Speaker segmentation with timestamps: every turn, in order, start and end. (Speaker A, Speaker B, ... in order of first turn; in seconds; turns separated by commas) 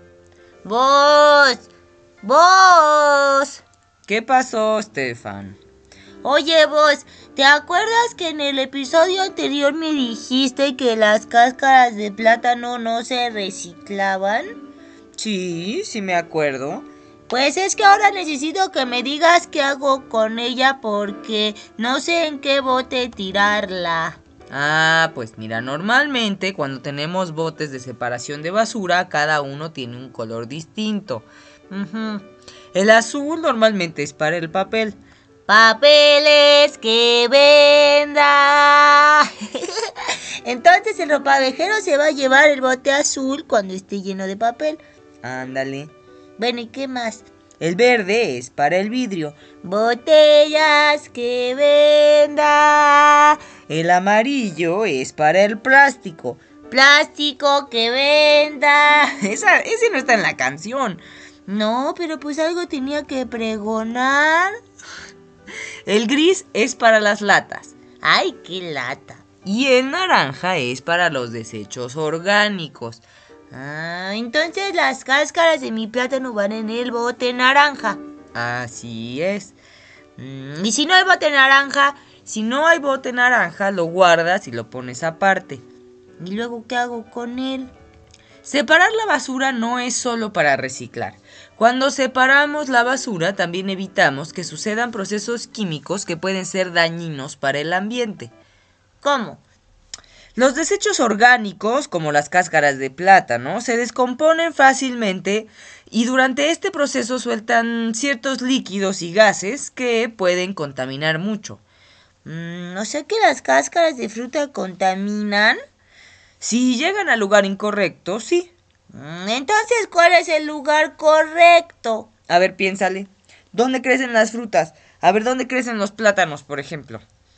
Speaker A: 0.7-1.7, Speaker A: 2.2-3.6, Speaker B: 4.0-5.6, Speaker A: 6.2-14.6, Speaker B: 15.2-16.9, Speaker A: 17.3-24.2, Speaker B: 24.5-32.2, Speaker B: 32.7-35.0, Speaker A: 35.5-44.8, Speaker B: 45.2-45.9, Speaker A: 46.4-47.2, Speaker B: 47.6-49.4, Speaker A: 49.6-53.4, Speaker B: 53.7-56.4, Speaker A: 56.7-59.1, Speaker B: 59.1-61.0, Speaker A: 61.5-64.5, Speaker B: 65.9-67.8, Speaker A: 68.0-69.2, Speaker B: 69.4-73.0, Speaker A: 73.5-78.0, Speaker B: 78.3-79.5, Speaker B: 80.2-80.6, Speaker A: 80.7-81.9, Speaker B: 82.0-85.6, Speaker A: 86.2-87.7, Speaker B: 88.4-98.3, Speaker A: 99.0-99.4, Speaker B: 100.4-111.6, Speaker A: 112.3-115.6, Speaker B: 116.4-118.5, Speaker A: 118.9-122.1, Speaker B: 122.3-127.0